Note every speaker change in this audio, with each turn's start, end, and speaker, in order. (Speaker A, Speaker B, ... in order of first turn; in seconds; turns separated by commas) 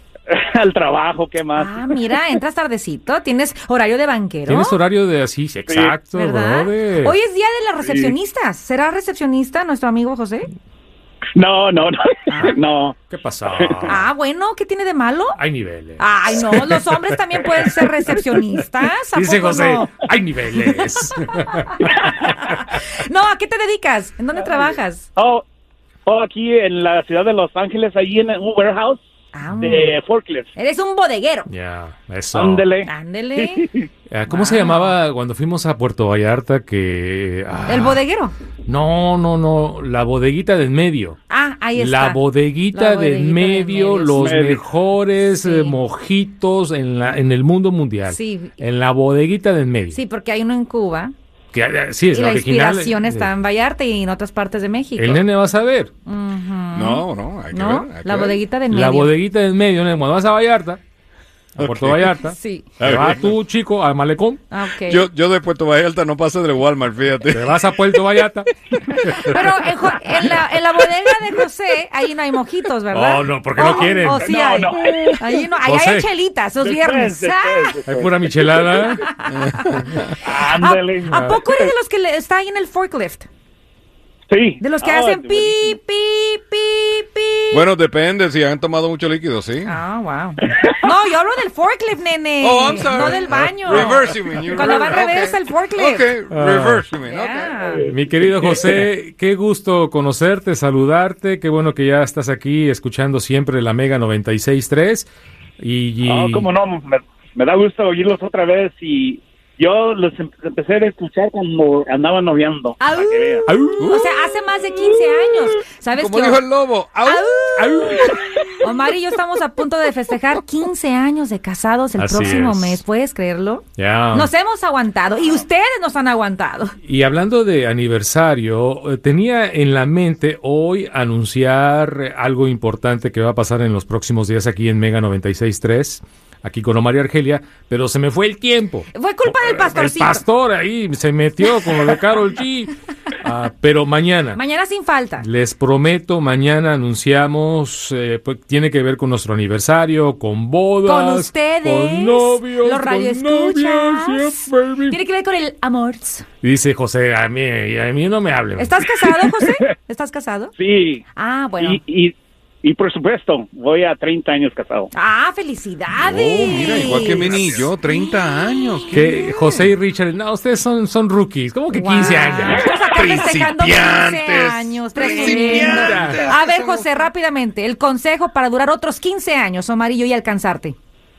Speaker A: 0.3-2.0, Speaker B: 1.6-4.8, Speaker C: 4.5-7.2, Speaker A: 5.7-6.0, Speaker B: 6.1-10.5, Speaker A: 7.8-8.1, Speaker A: 11.3-12.9, Speaker B: 12.3-12.6, Speaker C: 13.1-14.1, Speaker A: 13.5-14.0, Speaker B: 13.9-15.4, Speaker C: 15.3-16.8, Speaker B: 16.0-20.1, Speaker C: 17.3-17.7, Speaker C: 19.1-21.9, Speaker B: 21.6-25.1, Speaker A: 21.9-22.3, Speaker A: 24.4-25.4, Speaker A: 26.1-29.0, Speaker B: 29.3-29.9, Speaker A: 29.5-30.5, Speaker B: 30.5-31.5, Speaker C: 31.5-32.6, Speaker A: 32.3-33.9, Speaker B: 32.8-33.7, Speaker C: 34.1-38.0, Speaker B: 34.3-35.0, Speaker B: 37.7-38.3, Speaker C: 38.7-41.2, Speaker B: 41.3-44.3, Speaker C: 41.7-50.0, Speaker A: 44.1-44.7, Speaker B: 45.2-45.8, Speaker B: 48.1-48.6, Speaker B: 49.9-51.1, Speaker C: 51.5-53.3, Speaker B: 52.1-55.2, Speaker C: 55.0-55.9, Speaker B: 56.0-59.1, Speaker D: 56.7-58.4, Speaker C: 58.7-60.8, Speaker D: 61.6-62.1, Speaker C: 61.6-64.5, Speaker B: 62.3-62.7, Speaker D: 62.8-63.3, Speaker B: 64.5-65.0, Speaker D: 64.8-68.0, Speaker C: 67.3-68.5, Speaker C: 69.0-69.4, Speaker B: 69.2-77.8, Speaker C: 72.9-74.3, Speaker A: 73.7-75.3, Speaker C: 75.6-76.1, Speaker A: 76.6-78.8, Speaker C: 77.9-79.0, Speaker B: 79.0-79.9, Speaker D: 79.2-80.1, Speaker A: 80.2-81.7, Speaker B: 80.5-83.3, Speaker A: 84.3-85.8, Speaker B: 84.6-87.7, Speaker D: 87.5-89.8, Speaker B: 89.7-96.1, Speaker A: 90.5-90.8, Speaker D: 92.4-97.6, Speaker C: 96.3-96.8, Speaker B: 97.0-97.9, Speaker A: 97.7-98.8, Speaker C: 97.8-106.5, Speaker A: 106.0-113.5, Speaker B: 112.8-116.4, Speaker C: 113.5-113.9, Speaker D: 113.8-114.1, Speaker D: 115.9-117.5, Speaker B: 117.0-126.8, Speaker C: 117.5-118.1, Speaker C: 122.0-122.8, Speaker C: 123.8-124.3, Speaker C: 126.8-144.4, Speaker B: 138.9-140.2, Speaker B: 144.3-145.2, Speaker C: 145.2-155.0, Speaker B: 150.8-156.2, Speaker C: 156.4-158.8, Speaker B: 158.6-160.5, Speaker A: 159.1-159.4, Speaker A: 160.6-161.0, Speaker B: 161.1-161.8, Speaker A: 161.6-164.9, Speaker B: 164.9-169.6, Speaker D: 165.9-169.0, Speaker C: 168.9-172.7, Speaker B: 171.7-180.8, Speaker D: 172.9-176.8, Speaker C: 175.7-176.3